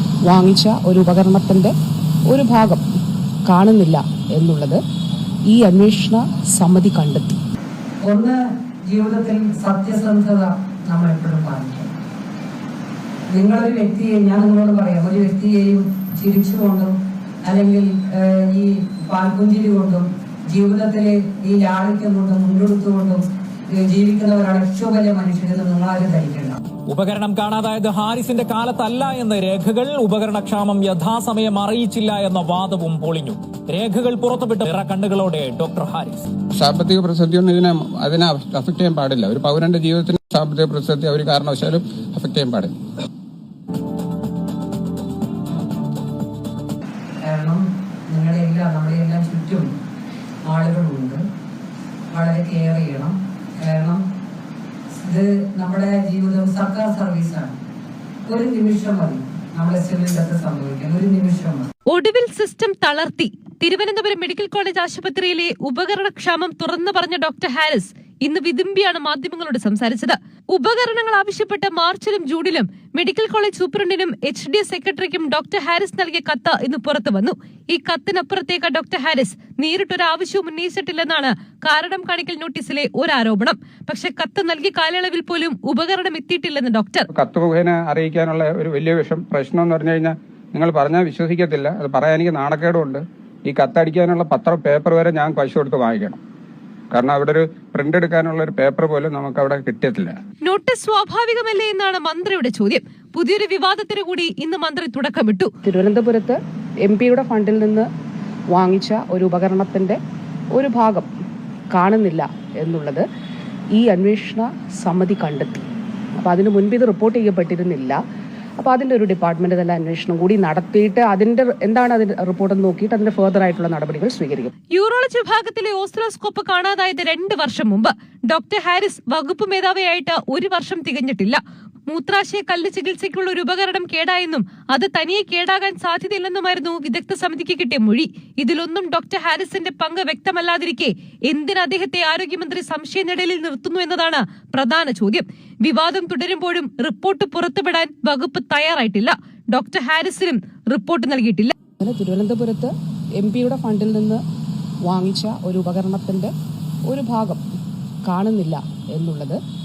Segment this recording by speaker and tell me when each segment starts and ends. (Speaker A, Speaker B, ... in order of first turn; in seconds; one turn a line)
Speaker A: 0.2-1.7
Speaker A: 2.3-2.8
Speaker A: 3.5-4.8
Speaker A: 5.5-7.4
Speaker B: 8.0-11.9
Speaker B: 13.3-26.6
Speaker C: 26.9-36.3
Speaker D: 36.5-42.7
Speaker B: 47.2-49.7
Speaker B: 50.4-51.2
Speaker B: 52.1-54.0
Speaker B: 54.9-57.5
Speaker B: 58.3-61.7
Speaker E: 61.9-87.1
Speaker D: 87.1-96.2
Speaker D: 96.9-100.2
Speaker E: 100.4-105.5
Speaker A: 105.6-107.9
Speaker A: 108.5-110.0
Speaker A: 110.5-111.1
Speaker A: 111.7-113.0
Speaker A: 113.7-115.6
Speaker A: 116.2-118.0
Speaker A: 118.6-124.5
Speaker E: 124.7-151.5
Speaker A: 151.8-154.2
Speaker A: 154.8-156.3
Speaker A: 156.9-157.4
Speaker A: 158.0-159.4